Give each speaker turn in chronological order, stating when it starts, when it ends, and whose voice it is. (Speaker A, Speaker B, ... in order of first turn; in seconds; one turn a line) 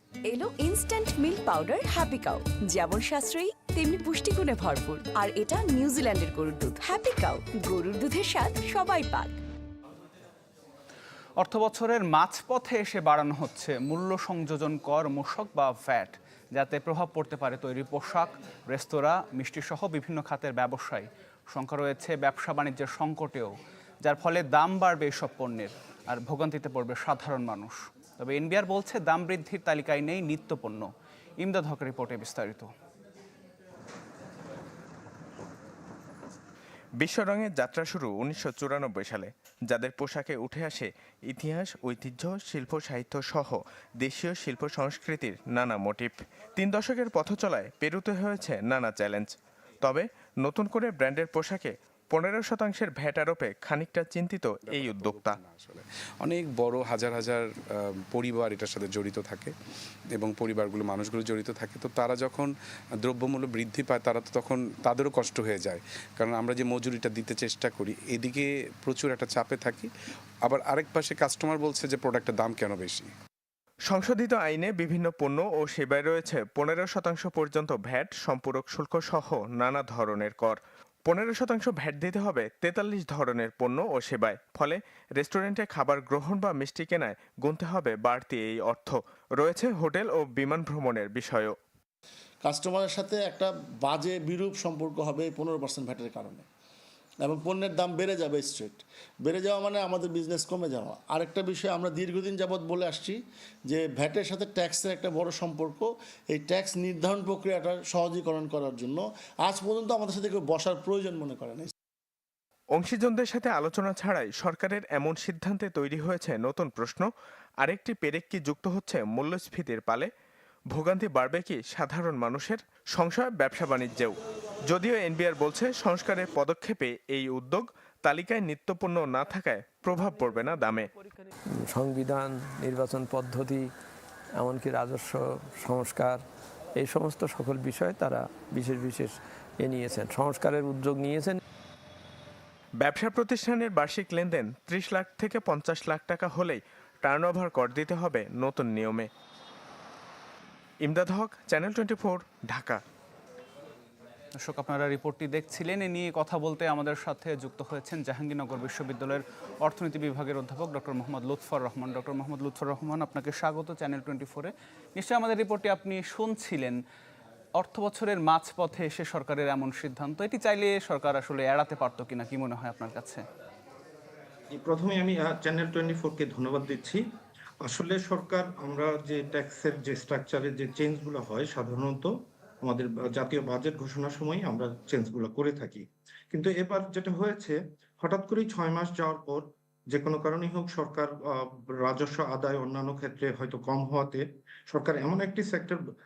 Speaker A: 0.3-9.4
Speaker B: 11.4-30.9
Speaker B: 31.4-32.7
Speaker C: 37.0-55.4
Speaker D: 54.7-57.4
Speaker D: 58.1-59.5
Speaker D: 60.1-62.5
Speaker D: 63.0-69.9
Speaker D: 70.5-73.1
Speaker C: 73.9-91.5
Speaker E: 92.4-96.5
Speaker E: 97.2-103.2
Speaker E: 103.7-111.7
Speaker C: 112.8-117.1
Speaker C: 117.6-120.1
Speaker C: 120.7-124.2
Speaker C: 124.7-130.9
Speaker F: 131.6-133.7
Speaker F: 134.4-136.2
Speaker F: 136.8-141.4
Speaker C: 142.8-149.1
Speaker C: 150.8-152.8
Speaker B: 154.4-166.8
Speaker B: 167.6-173.2
Speaker G: 174.5-177.0
Speaker G: 177.6-182.1
Speaker G: 182.7-195.8